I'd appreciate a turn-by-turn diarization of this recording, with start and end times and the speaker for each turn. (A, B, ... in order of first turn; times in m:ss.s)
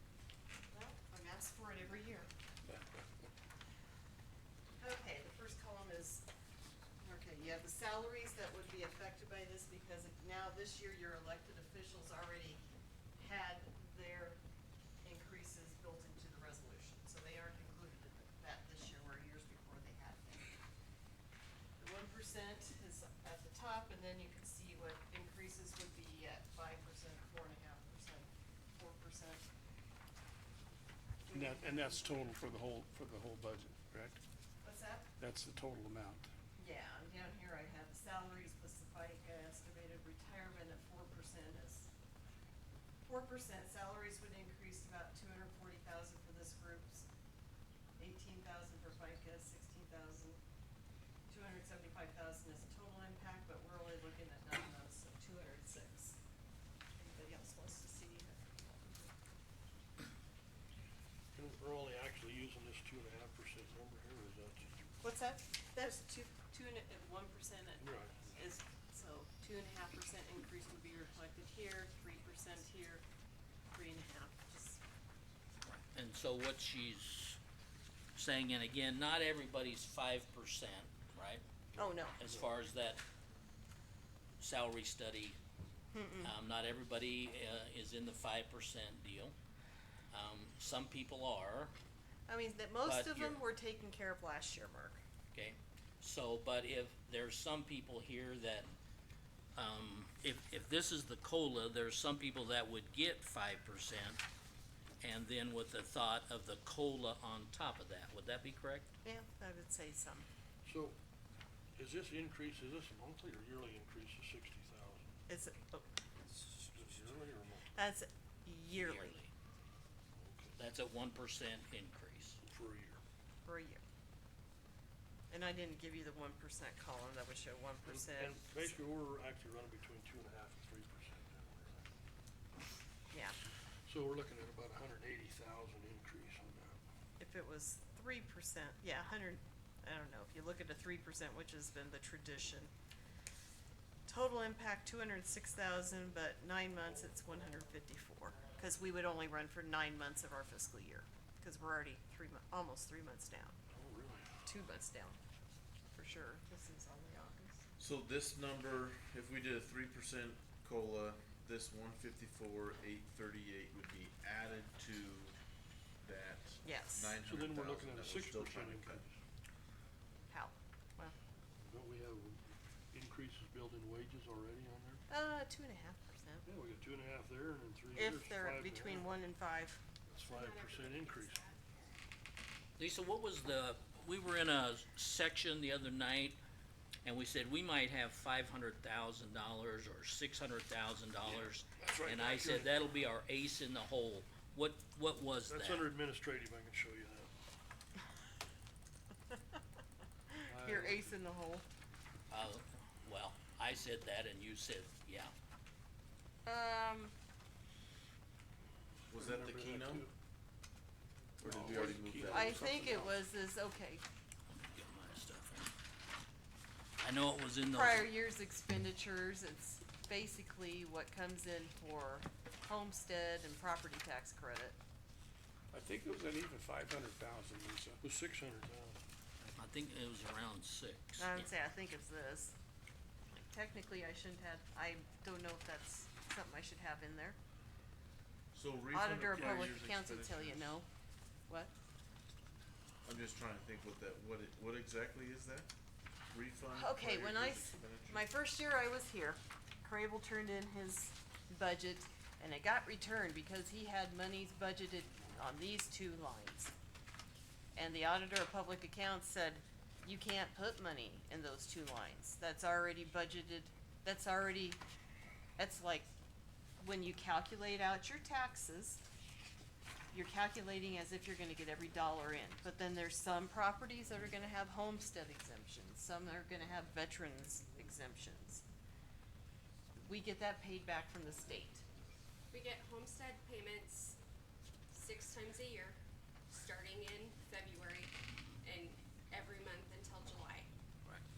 0:00.7-0:02.3 A
0:04.8-0:06.3 A
0:07.0-0:12.6 A
0:13.2-0:14.4 A
0:15.0-0:20.5 A
0:21.8-0:29.4 A
0:31.3-0:32.1 A
0:31.3-0:34.2 B
0:34.6-0:35.1 A
0:35.2-0:36.3 B
0:36.6-0:41.9 A
0:43.0-0:47.1 A
0:48.0-0:50.4 A
0:51.3-0:56.2 A
0:57.0-0:59.1 A
1:01.3-1:04.8 C
1:05.0-1:13.0 A
1:07.8-1:08.3 C
1:13.7-1:14.8 A
1:15.9-1:17.4 D
1:18.1-1:21.4 D
1:21.7-1:22.6 C
1:21.8-1:22.2 A
1:22.2-1:23.0 D
1:24.4-1:25.4 D
1:25.9-1:26.3 A
1:26.2-1:29.3 D
1:30.1-1:31.7 D
1:32.3-1:35.0 A
1:32.8-1:33.4 D
1:35.3-1:38.7 D
1:39.5-1:44.2 D
1:45.0-1:48.9 D
1:49.0-1:50.2 A
1:50.6-1:51.0 C
1:51.8-1:55.1 C
1:55.3-1:55.9 A
1:56.4-1:57.7 C
1:57.7-1:59.2 A
1:58.7-1:59.3 D
2:00.1-2:00.6 C
2:00.6-2:02.4 D
2:02.4-2:03.0 C
2:03.4-2:03.8 A
2:05.3-2:08.7 A
2:07.8-2:11.9 C
2:13.1-2:13.4 A
2:13.8-2:16.8 C
2:17.2-2:22.7 A
2:24.1-2:33.6 A
2:33.7-2:34.3 C
2:34.4-2:35.2 A
2:36.0-2:37.6 A
2:37.8-2:45.4 E
2:46.0-2:49.0 E
2:46.6-2:47.2 A
2:47.2-2:49.2 C
2:50.2-2:51.1 A
2:51.6-2:55.0 C
2:55.1-2:56.4 A
2:56.4-2:59.1 C
2:57.9-2:59.8 A
3:00.1-3:01.5 C
3:00.2-3:01.9 F
3:02.8-3:06.4 D
3:07.0-3:15.9 D
3:11.2-3:12.8 C
3:15.5-3:17.3 C
3:20.3-3:21.6 A
3:20.5-3:21.2 C
3:22.3-3:25.3 D
3:26.4-3:27.1 A
3:29.1-3:30.0 E
3:29.1-3:30.1 B
3:31.4-3:32.6 E
3:31.4-3:33.2 B
3:32.2-3:34.0 A
3:34.7-3:35.7 D
3:37.0-3:38.0 D
3:37.7-3:44.8 A
3:45.7-3:48.0 B
3:48.0-3:49.0 C
3:49.5-3:51.5 D
3:51.2-3:52.5 A
3:53.3-3:57.4 A
3:58.5-4:00.6 E
3:58.9-4:00.9 A
3:59.4-3:59.6 C
4:03.0-4:05.7 E
4:06.3-4:08.3 E
4:06.7-4:16.7 A
4:17.7-4:24.8 A
4:25.6-4:26.1 A
4:26.8-4:29.0 A
4:30.1-4:38.6 A
4:40.0-4:41.8 A
4:42.5-4:44.2 F
4:44.9-4:46.0 F
4:46.5-4:48.1 F
4:48.6-4:50.7 F